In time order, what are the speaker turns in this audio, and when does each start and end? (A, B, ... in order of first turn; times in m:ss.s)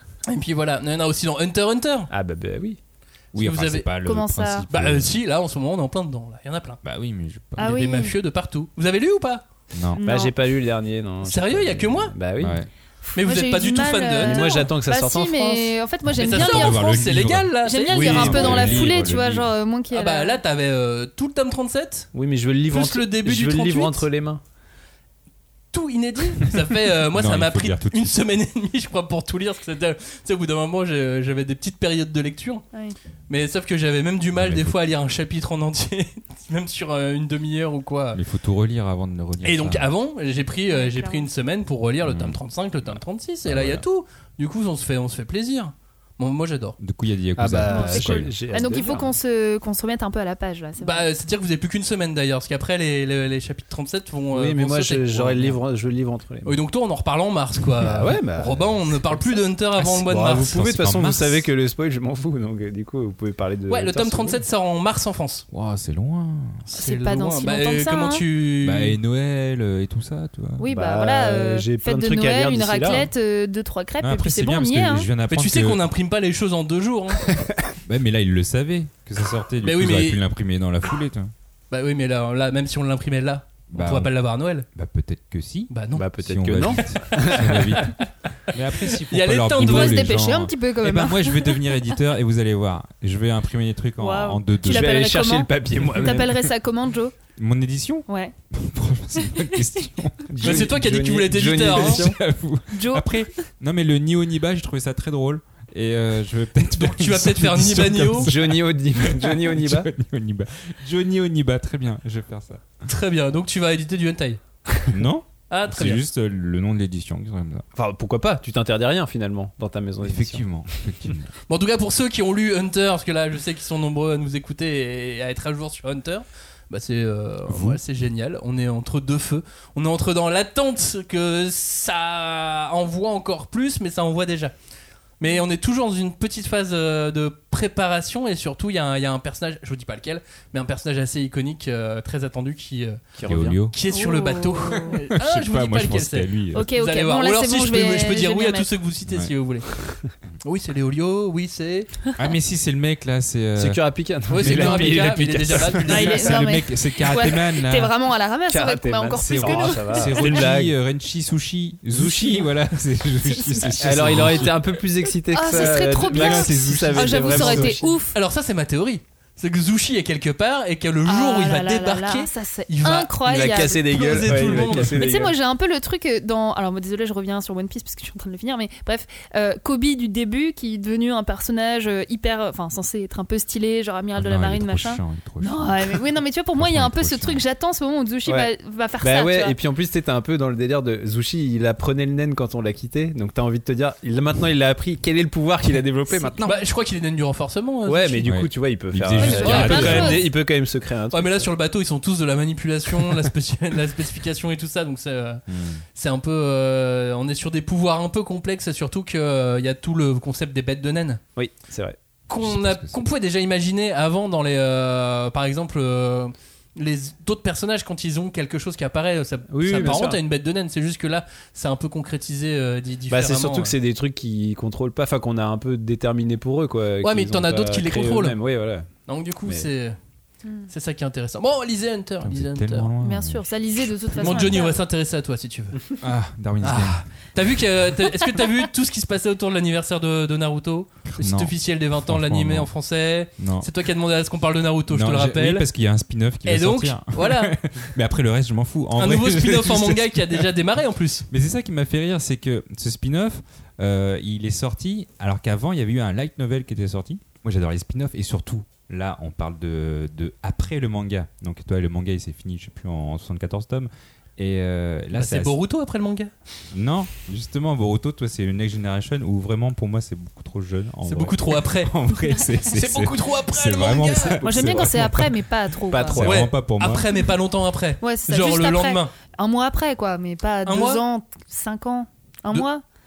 0:00.3-0:02.1 A
0:02.1-0:02.8 B
0:03.3-0:03.9 A
0:03.3-0:05.1 C
0:04.0-0:04.7 D
0:04.7-0:06.8 A
0:06.8-0:07.7 C
0:07.6-0:08.2 D
0:07.6-0:09.4 A
0:09.7-0:10.0 C
0:10.0-0:10.3 D
0:10.0-0:12.6 B
0:11.2-0:12.1 A
0:12.4-0:12.7 C
0:13.0-0:16.9 D
0:13.2-0:14.6 A
0:14.2-0:15.7 B
0:16.1-0:19.5 C
0:16.2-0:18.9 A
0:17.6-0:20.4 D
0:18.0-0:18.9 B
0:19.9-0:22.1 A
0:22.1-0:24.4 B
0:22.7-0:24.1 A
0:25.7-0:32.6 A
0:27.1-0:28.1 C
0:33.3-0:38.2 A
0:34.4-0:34.7 C
0:38.1-0:39.9 C
0:39.4-0:46.8 A
0:40.7-0:41.3 D
0:42.0-0:43.8 C
0:46.8-0:48.3 C
0:47.4-0:49.2 B
0:47.6-0:51.1 D
0:50.8-0:55.6 A
0:54.3-0:56.6 B
0:56.4-1:00.6 A
0:57.8-0:58.9 B
0:59.9-1:01.5 C
1:00.0-1:04.4 B
1:03.7-1:05.4 A
1:05.5-1:06.6 C
1:06.6-1:09.0 A
1:06.7-1:08.2 D
1:08.6-1:10.6 C
1:10.6-1:15.1 D
1:10.7-1:13.1 B
1:14.0-1:15.8 C
1:15.3-1:17.4 A
1:17.8-1:21.3 C
1:19.6-1:20.2 A
1:21.7-1:24.6 A
1:23.7-1:24.1 C
1:24.7-1:25.7 C
1:25.7-1:26.0 A
1:25.9-1:27.8 B
1:26.2-1:28.0 C
1:27.7-1:30.1 A
1:28.5-1:35.0 C
1:29.6-1:31.6 D
1:34.0-1:37.1 D
1:34.6-1:36.4 B
1:37.4-1:40.7 C
1:38.1-1:38.3 D
1:39.2-1:39.6 D
1:40.3-1:42.2 B
1:40.4-1:42.0 A
1:41.5-1:52.6 C
1:42.7-1:43.3 D
1:46.6-1:48.3 A
1:48.2-1:49.9 B
1:52.8-1:54.4 A
1:54.9-1:57.6 C
1:55.5-1:56.0 A
1:57.8-2:00.4 B
2:00.0-2:01.3 C
2:01.5-2:14.5 A
2:07.5-2:07.8 C
2:15.2-2:23.0 A
2:23.2-2:23.6 B
2:23.2-2:23.7 C
2:23.7-2:29.6 A
2:23.9-2:25.0 D
2:25.2-2:26.7 C
2:26.5-2:28.7 D
2:29.1-2:29.3 C
2:30.4-2:31.9 A
2:32.2-2:37.9 C
2:33.6-2:36.3 B
2:34.3-2:36.2 A
2:35.9-2:40.5 D
2:38.5-2:40.7 B
2:39.2-2:44.6 C
2:41.9-2:42.5 B
2:43.2-2:44.4 D
2:43.8-2:48.0 B
2:45.3-2:48.2 D
2:45.5-2:47.8 C
2:48.1-2:55.0 A
2:51.0-3:09.5 D
2:53.2-2:55.3 B
3:04.2-3:06.0 C
3:06.6-3:07.4 C
3:08.2-3:16.4 B
3:16.1-3:16.6 D
3:16.4-3:18.3 A
3:17.8-3:21.5 B
3:18.2-3:20.2 C
3:19.2-3:20.2 D
3:19.4-3:20.1 A
3:21.1-3:25.4 A
3:25.5-3:25.8 C
3:25.9-3:31.2 A
3:31.4-3:32.0 B
3:32.3-3:43.7 A
3:32.4-3:33.0 C
3:39.5-3:40.2 B
3:43.1-3:48.9 B
3:47.0-3:48.4 A
3:49.1-3:50.0 A
3:50.7-3:52.9 A
3:52.2-3:54.5 C
3:53.0-3:54.8 D
3:54.2-3:55.8 A
3:56.0-3:57.0 C
3:56.6-4:05.6 A
4:01.1-4:02.7 C
4:03.4-4:03.7 C
4:04.9-4:10.5 C
4:06.4-4:07.6 A
4:09.0-4:11.3 A
4:11.3-4:25.6 C
4:25.1-4:26.3 A
4:26.7-4:37.0 C
4:31.0-4:31.9 A
4:32.7-4:34.4 A
4:34.2-4:35.0 B
4:34.4-4:36.2 D
4:35.9-4:36.5 B
4:36.2-4:39.1 A
4:38.0-4:42.8 D
4:40.6-4:41.0 A